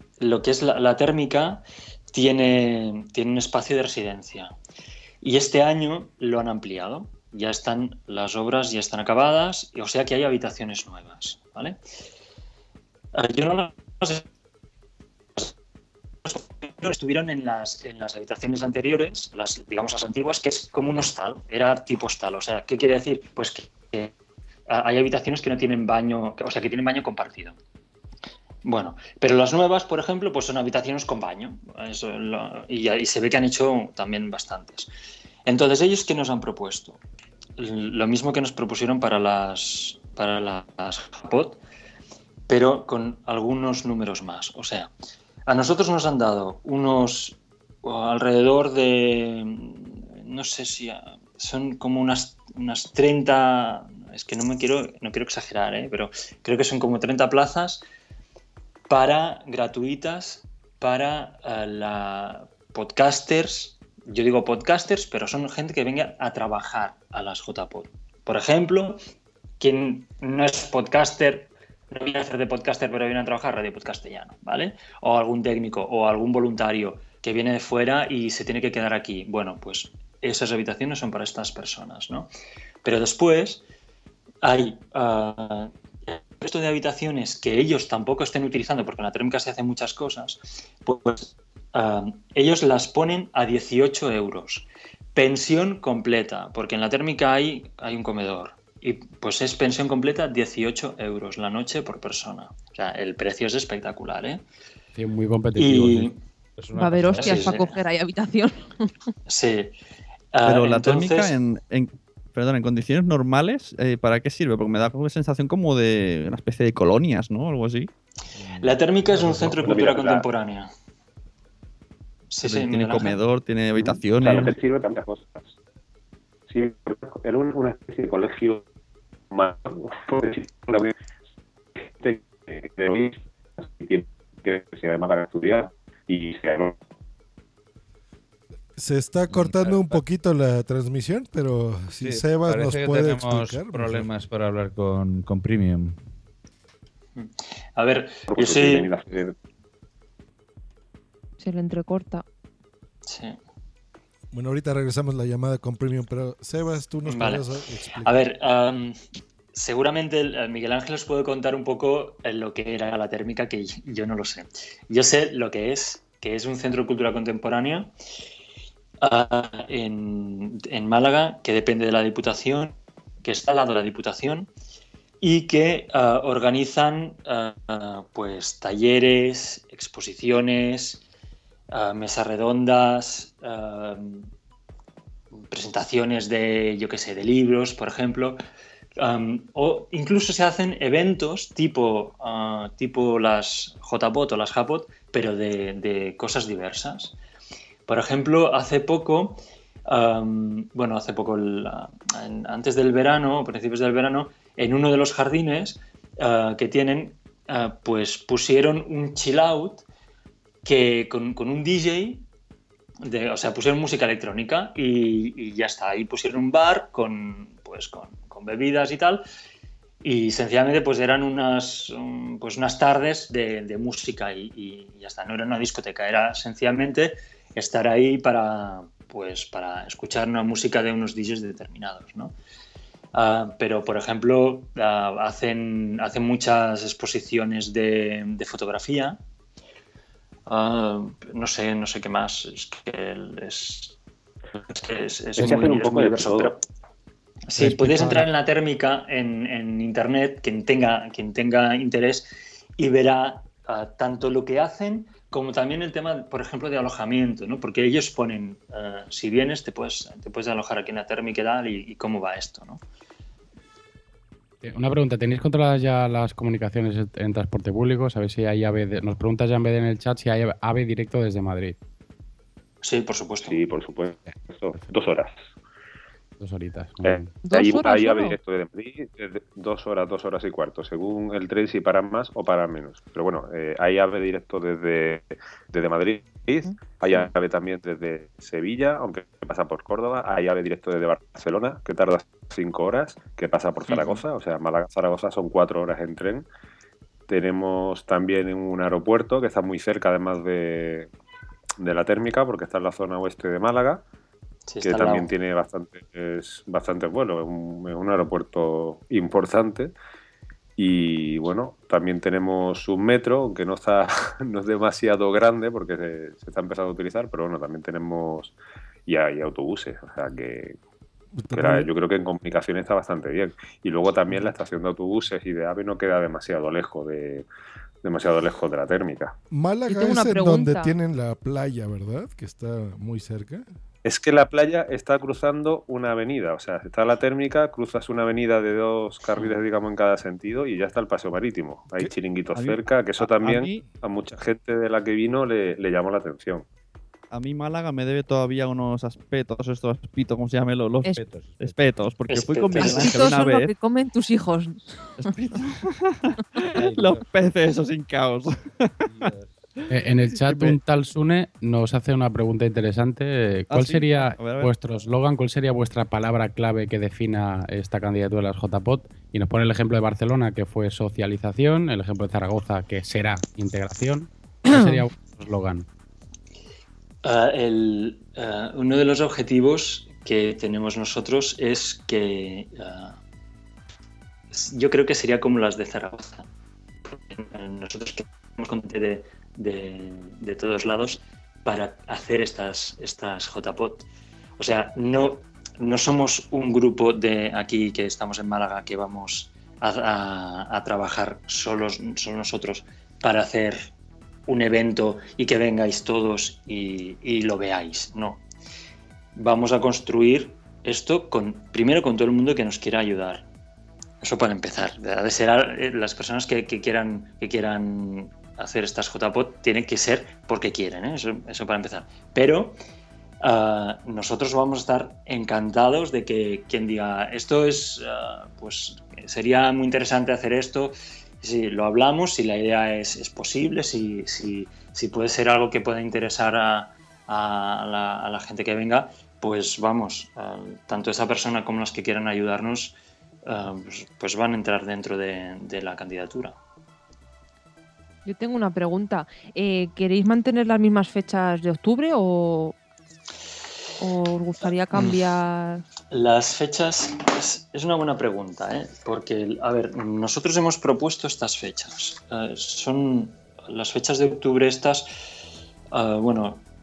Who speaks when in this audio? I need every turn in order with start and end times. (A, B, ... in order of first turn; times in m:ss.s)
0:00.2-0:04.5 A
0:05.2-0:11.8 A
0:13.1-0:14.2 A
0:16.2-0:24.1 A
0:24.7-0:27.6 A
0:28.6-0:34.9 A
0:35.4-0:37.0 A
0:37.6-0:41.6 A
0:42.5-0:44.9 A
0:45.5-0:57.8 A
0:58.9-1:09.0 A
1:09.6-1:22.3 A
1:22.8-1:23.6 A
1:24.4-1:44.4 A
1:44.9-1:46.1 B
1:45.6-1:46.2 A
1:46.6-1:47.6 C
1:46.7-1:48.8 D
1:47.2-1:47.7 A
1:49.3-1:49.7 A
1:50.3-1:51.3 A
1:50.4-1:57.9 E
1:58.4-1:58.7 C
1:58.6-2:00.7 A
1:59.0-2:00.3 F
2:02.3-2:03.2 A
2:02.4-2:04.6 E
2:03.8-2:05.5 F
2:06.5-2:08.6 F
2:09.3-2:10.9 F
2:11.8-2:16.8 F
2:18.8-2:24.1 G
2:19.3-2:20.0 C
2:22.0-2:26.0 C
2:27.2-2:28.9 A
2:28.3-2:29.3 F
2:31.4-2:32.2 D
2:33.1-2:33.4 A
2:34.3-2:38.2 G
2:37.1-2:37.5 A
2:38.0-2:39.0 A
2:39.5-2:47.9 A
2:49.0-2:54.5 A
2:55.2-3:01.0 A
3:01.7-3:04.3 A
3:05.4-3:08.4 A
3:09.0-3:17.1 A
3:17.9-3:29.8 A
3:30.6-3:32.2 A
3:33.0-3:39.2 A
3:40.0-3:52.3 A
3:53.1-3:59.2 A
4:00.5-4:04.0 A
4:04.7-4:06.6 A
4:05.3-4:06.6 F
4:07.5-4:22.8 A
4:24.6-4:31.8 B
4:32.8-4:33.6 A
4:33.4-4:35.3 F
4:36.4-4:37.4 B
4:37.0-4:56.4 F
4:37.4-4:38.4 D
4:53.9-4:54.2 E
4:57.3-5:01.1 F
5:01.8-5:04.0 F
5:04.7-5:05.3 A
5:04.8-5:09.9 F
5:10.8-5:18.6 F
5:19.1-5:20.8 F
5:21.3-5:21.8 G
5:21.5-5:27.4 F
5:28.0-5:29.3 F
5:29.5-5:33.6 G
5:29.9-5:31.0 D
5:34.0-5:46.6 F
5:42.6-5:43.8 E
5:47.3-5:53.7 E
5:51.1-5:51.8 C
5:52.3-5:53.1 A
5:52.7-5:55.1 D
5:55.2-5:58.9 E
5:56.8-5:57.2 C
5:59.0-5:59.5 C
5:59.9-6:15.8 B
6:00.3-6:00.8 E
6:03.7-6:04.7 E
6:14.7-6:15.0 D
6:17.2-6:23.2 A
6:24.5-6:26.4 A
6:27.0-6:34.0 A
6:34.6-6:43.9 A
6:44.5-6:48.4 A
6:49.4-6:53.4 A
6:54.2-7:02.8 A
7:03.4-7:22.9 A
7:23.4-7:26.6 A
7:28.2-7:32.7 D
7:34.0-7:35.8 D
7:36.1-7:45.1 A
7:45.9-7:46.6 A